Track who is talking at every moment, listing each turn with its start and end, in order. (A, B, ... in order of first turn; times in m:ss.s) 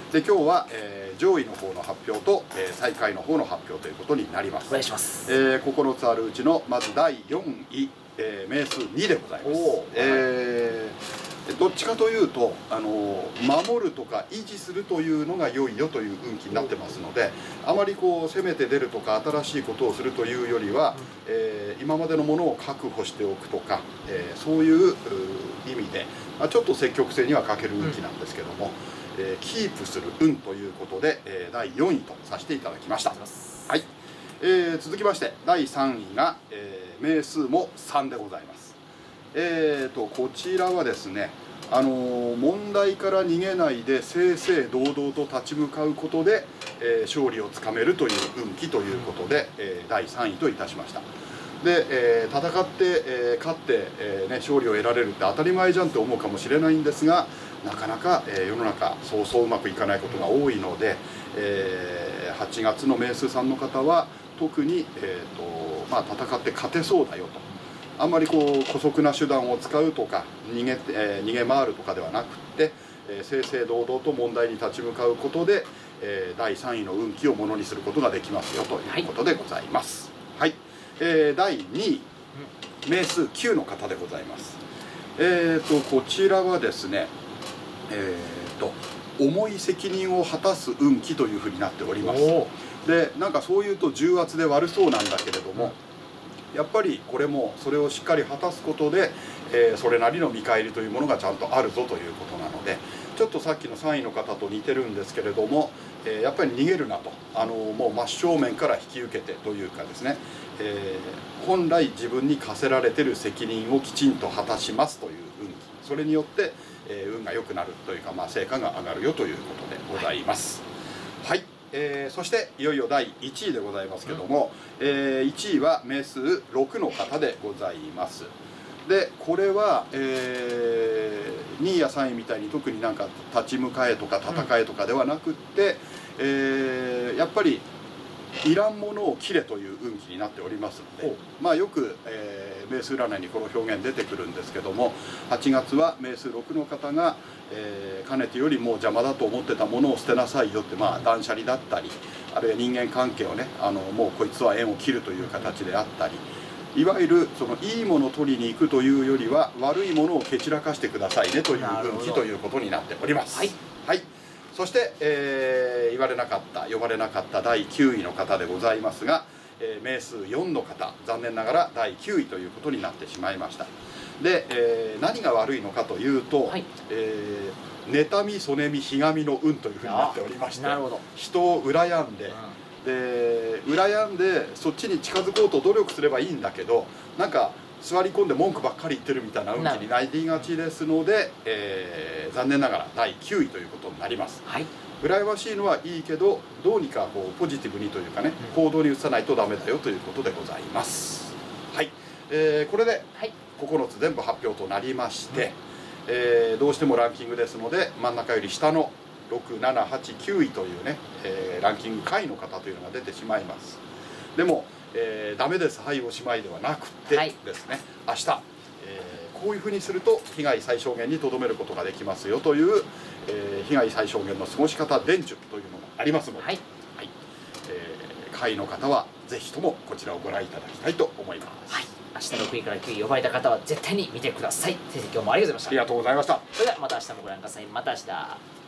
0:00.1-0:33.2 A
0:04.7-0:05.3 B
0:09.4-0:10.2 B
0:33.1-0:33.7 B
0:34.4-0:38.8 A
0:39.3-0:51.0 A
0:51.6-1:07.4 A
1:08.0-1:22.1 A
1:22.8-1:24.6 A
1:25.2-1:27.1 A
1:27.9-1:35.8 A
1:32.0-1:32.5 B
1:36.5-2:00.6 A
2:01.2-2:08.3 A
2:08.8-2:17.6 A
2:18.4-3:14.4 A
2:41.5-2:42.2 B
2:59.8-3:01.0 B
3:09.6-3:09.8 B
3:15.0-3:25.6 A
3:26.1-3:33.8 A
3:34.4-3:47.1 A
3:37.1-3:37.3 B
3:47.6-3:51.7 A
3:51.7-3:55.8 B
3:55.7-3:56.4 A
3:56.5-3:58.4 B